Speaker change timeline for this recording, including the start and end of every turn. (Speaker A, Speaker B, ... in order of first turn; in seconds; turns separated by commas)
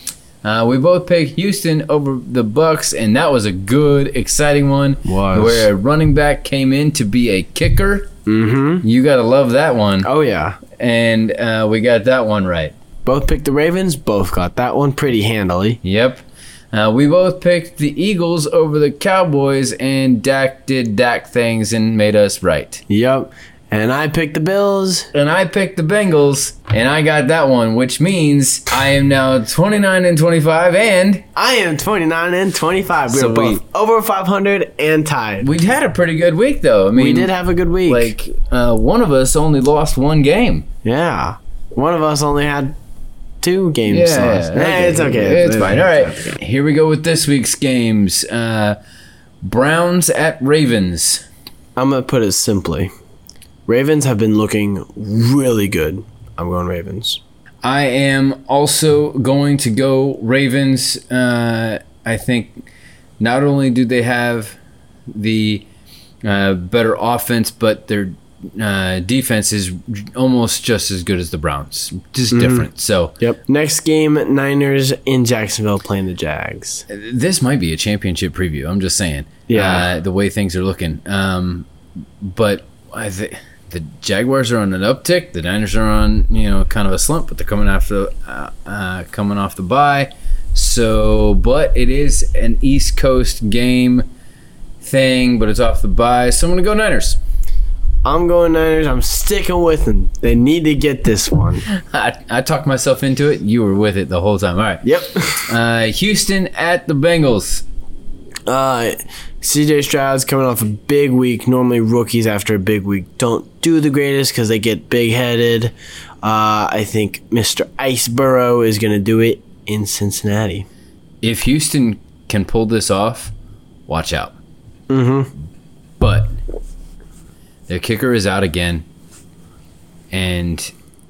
Speaker A: 0.4-8.1, Speaker B: 5.0-5.7, Speaker B: 8.2-8.8, Speaker A: 8.8-10.1, Speaker B: 10.0-10.6, Speaker A: 10.8-12.7, Speaker B: 13.1-15.8, Speaker A: 15.8-22.8, Speaker B: 22.9-25.1, Speaker A: 25.1-31.2, Speaker B: 31.3-35.5, Speaker A: 33.1-33.6, Speaker A: 35.4-37.3, Speaker B: 36.9-38.1, Speaker A: 37.9-40.6, Speaker B: 40.8-42.7, Speaker B: 43.4-46.3, Speaker A: 43.9-48.8, Speaker A: 49.4-51.2, Speaker B: 51.8-52.9, Speaker B: 53.7-57.2, Speaker A: 57.6-62.6, Speaker A: 63.2-64.6, Speaker A: 65.1-65.7, Speaker A: 66.2-73.2, Speaker B: 72.3-72.7, Speaker B: 73.2-76.8, Speaker A: 76.9-81.7, Speaker B: 79.5-79.9, Speaker A: 82.2-94.0, Speaker A: 94.8-97.2, Speaker B: 98.0-101.7, Speaker A: 101.7-104.8, Speaker B: 104.8-105.5, Speaker A: 105.5-107.6, Speaker B: 108.5-120.7, Speaker A: 121.2-123.3, Speaker A: 123.9-124.3, Speaker B: 124.9-125.3, Speaker A: 126.0-126.3, Speaker A: 127.7-128.8, Speaker A: 130.1-130.7